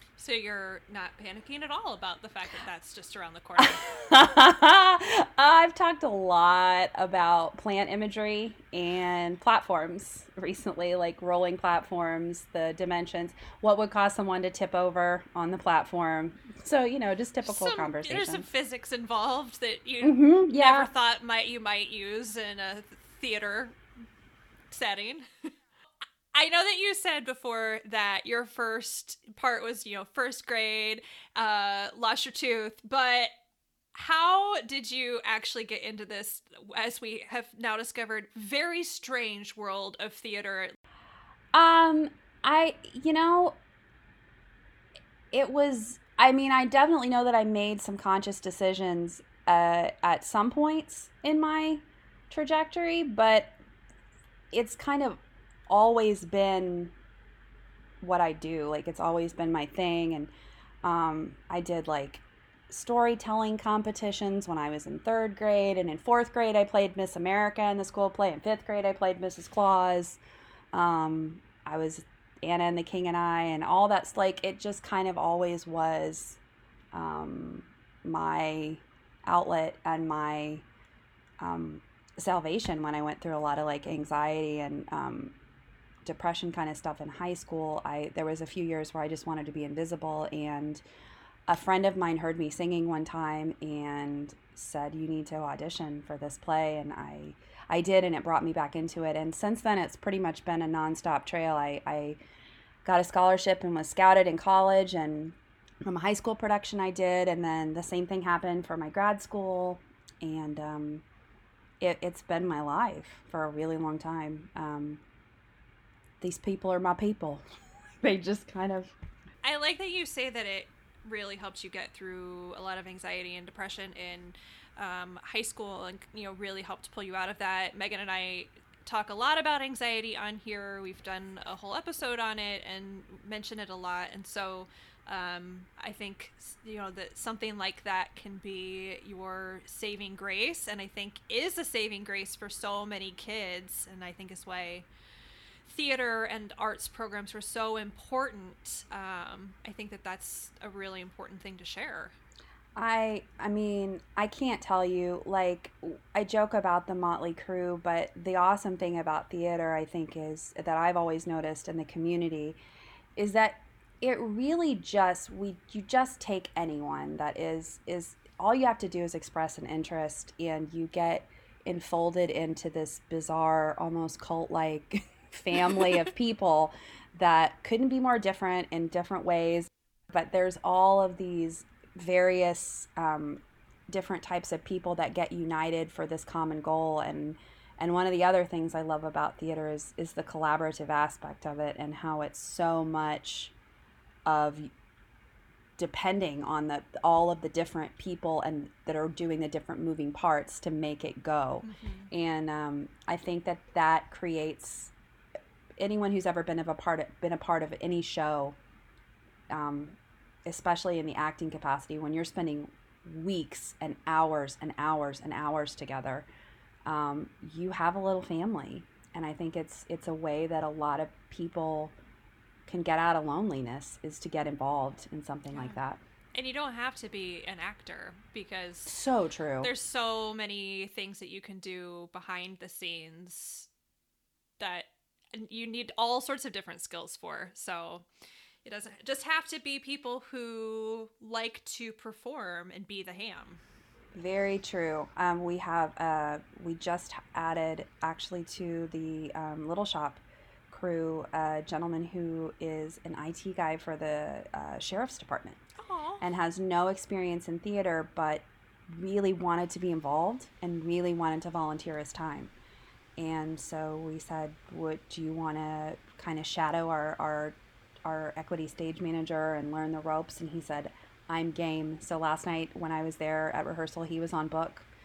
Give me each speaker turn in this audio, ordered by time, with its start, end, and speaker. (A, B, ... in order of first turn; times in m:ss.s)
0:00.2-0:03.8 A
0:03.6-0:18.5 B
0:17.4-0:23.8 A
0:20.0-0:20.9 B
0:24.7-0:25.3 A
0:26.3-0:33.3 A
0:33.9-0:40.8 A
0:41.5-0:43.6 B
0:45.3-0:53.6 B
0:54.5-0:56.9 B
0:58.0-1:00.3 B
1:00.8-1:10.2 B
1:10.7-1:16.4 B
1:16.9-1:20.6 B
1:21.4-1:25.4 B
1:26.0-1:30.8 B
1:31.5-1:42.2 B
1:42.8-1:51.0 B
1:51.8-1:55.0 B
1:56.2-1:57.4 B
1:58.0-1:59.0 B
1:59.4-2:24.9 A
2:25.6-2:32.2 A
2:32.8-2:42.6 B
2:43.2-3:13.5 B
3:14.2-3:14.7 B
3:15.8-3:24.9 B
3:21.6-3:22.1 A
3:25.8-3:28.6 B
3:29.5-3:36.3 B
3:36.9-3:42.0 B
3:42.7-3:46.0 B
3:45.5-3:45.8 A
3:46.3-3:49.0 A
3:48.9-3:49.7 B
3:49.6-3:53.7 A
3:54.6-3:58.1 A
3:58.6-4:03.6 A
4:04.2-4:15.6 B
4:15.8-4:16.2 A
4:16.2-4:22.5 B
4:23.2-4:34.9 B